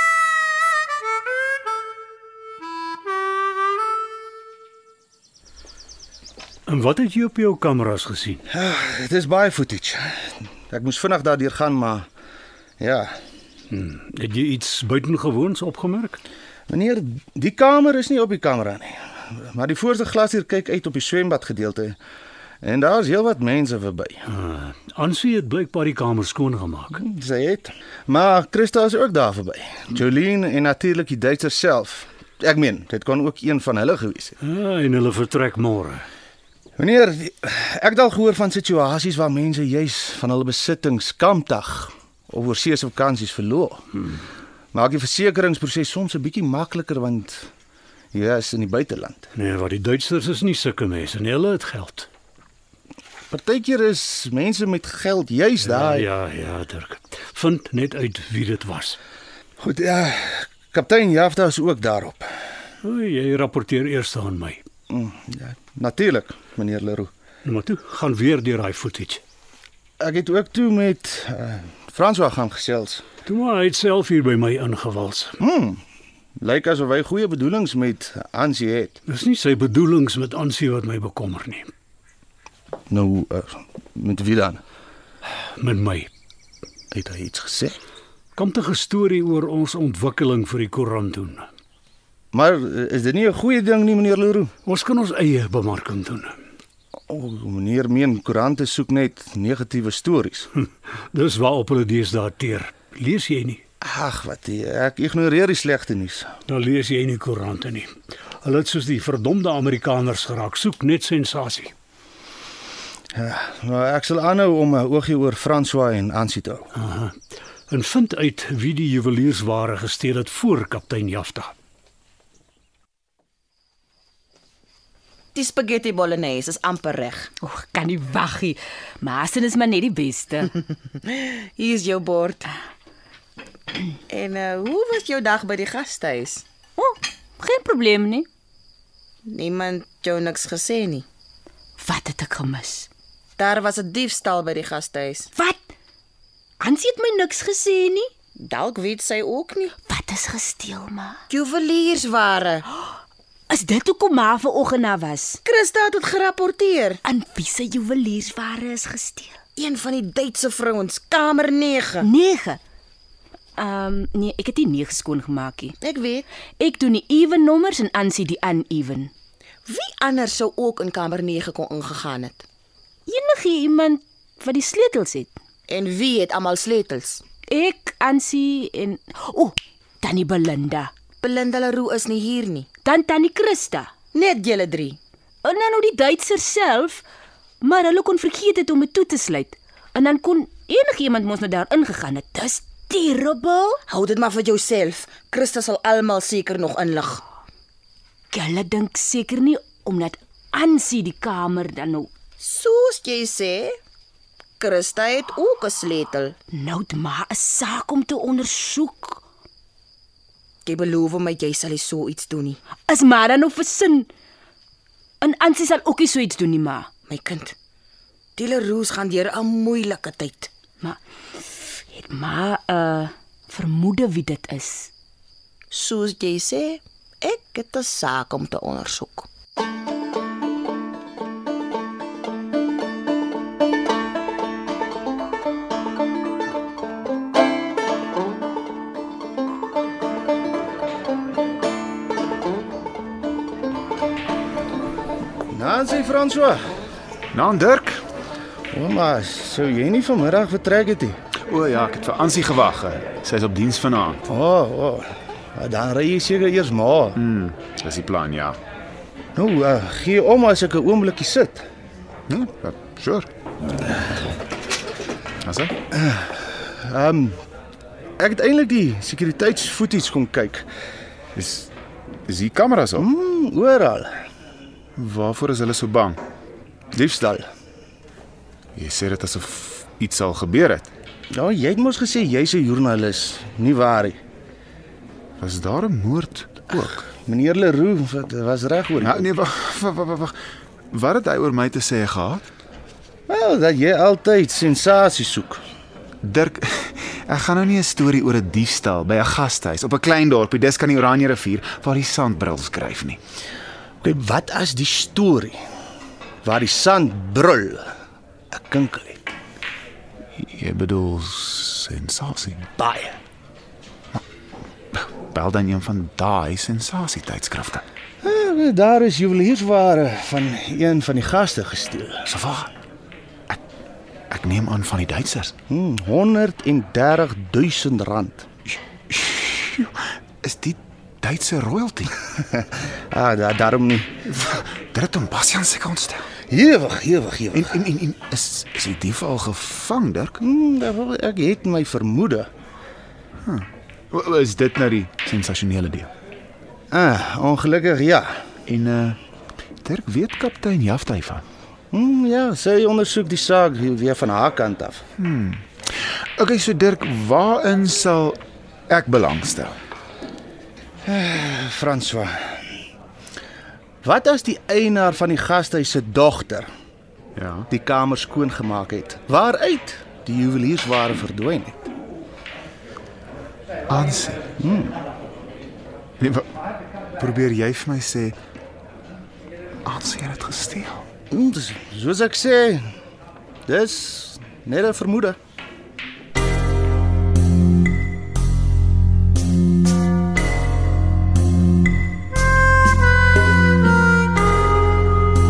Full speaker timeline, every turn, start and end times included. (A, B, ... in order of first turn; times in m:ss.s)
0:06.7-0:08.4 A
0:08.5-0:12.1 B
0:12.8-0:13.2 B
0:13.7-0:16.2 A
0:16.7-0:22.0 B
0:22.6-0:24.2 B
0:24.3-0:27.0 A
0:27.0-0:34.4 B
0:34.4-0:36.0 A
0:36.8-0:43.8 B
0:44.7-0:47.5 B
0:48.1-0:49.3 B
0:49.3-0:52.1 A
0:53.3-0:56.0 B
0:55.6-0:59.0 A
0:59.6-1:02.3 B
1:02.8-1:04.6 A
1:04.9-1:07.1 B
1:07.4-1:09.2 A
1:10.0-1:13.0 B
1:13.2-1:15.4 A
1:15.4-1:15.8 B
1:16.4-1:19.0 B
1:19.1-1:21.7 A
1:22.9-1:24.6 B
1:25.4-1:26.1 A
1:26.9-1:27.8 B
1:28.4-1:31.5 A
1:32.3-1:34.5 B
1:34.6-1:36.4 A
1:37.1-1:40.5 B
1:41.1-1:43.6 A
1:43.8-1:46.3 B
1:46.5-1:51.7 A
1:53.1-1:56.7 B
1:56.7-1:57.2 A
1:57.7-2:01.5 A
2:05.3-2:07.3 C
2:07.4-2:10.5 D
2:11.0-2:12.5 C
2:14.1-2:16.4 C
2:16.8-2:18.3 D
2:19.2-2:21.0 C
2:21.8-2:22.9 D
2:23.4-2:25.3 C
2:26.6-2:28.1 D
2:28.4-2:29.7 C
2:29.8-2:31.2 D
2:31.3-2:32.6 C
2:33.5-2:35.4 D
2:35.4-2:37.0 C
2:37.0-2:39.4 D
2:39.6-2:42.0 C
2:42.0-2:42.6 D
2:43.6-2:45.8 D
2:45.8-2:46.3 C
2:46.6-2:49.1 D
2:49.6-2:52.4 C
2:53.1-2:55.3 D
2:55.7-2:57.2 C
2:57.5-3:00.9 D
3:01.2-3:02.7 C
3:02.8-3:03.9 D
3:04.1-3:05.0 C
3:05.4-3:07.0 D
3:07.6-3:13.8 D
3:13.9-3:17.2 C
3:18.3-3:22.1 D
3:22.4-3:23.8 C
3:24.6-3:26.3 C
3:26.5-3:29.2 D
3:30.6-3:32.6 C
3:32.9-3:34.1 D
3:35.2-3:36.9 D
3:37.1-3:37.5 C
3:38.4-3:40.5 C
3:40.8-3:44.9 D
3:45.7-3:49.3 C
4:05.5-4:06.6 B
4:07.3-4:08.0 E
4:08.7-4:11.2 B
4:11.5-4:14.3 E
4:14.3-4:17.2 B
4:17.2-4:18.6 E
4:19.4-4:21.6 B
4:22.3-4:23.3 E
4:25.4-4:25.7 E
4:25.9-4:27.4 B
4:28.2-4:30.6 B
4:31.3-4:31.7 E
4:32.3-4:33.1 E
4:33.0-4:34.1 B
4:35.0-4:36.2 E
4:36.9-4:37.5 B
4:38.8-4:40.9 E
4:41.3-4:44.2 B
4:45.4-4:47.0 E
4:47.0-4:49.3 B
4:49.0-4:50.3 E
4:50.9-4:52.4 E
4:53.3-4:55.6 B
4:56.2-5:03.2 E
5:04.0-5:05.6 B
5:06.4-5:07.9 B
5:08.5-5:09.2 B
5:10.4-5:12.7 E
5:12.8-5:13.2 B
5:15.0-5:17.8 E
5:18.2-5:22.2 B
5:22.3-5:22.7 E
5:24.3-5:25.5 E
5:25.7-5:28.5 B
5:29.1-5:32.2 E
5:32.4-5:34.1 B
5:34.3-5:36.3 E
5:36.5-5:37.8 B
5:37.5-5:40.4 E
5:40.4-5:42.5 B
5:43.4-5:46.1 E
5:46.9-5:48.4 B
5:48.7-5:49.2 E
5:49.8-5:51.4 E
5:51.9-5:55.0 B
5:55.2-5:59.8 E
6:01.0-6:02.5 B
6:04.0-6:06.7 B
6:07.3-6:07.7 E
6:07.7-6:11.8 B
6:13.9-6:14.4 E
6:14.6-6:14.9 B
6:16.2-6:16.5 E
6:17.2-6:18.4 E
6:19.8-6:21.0 E
6:21.3-6:22.9 B
6:23.7-6:25.4 B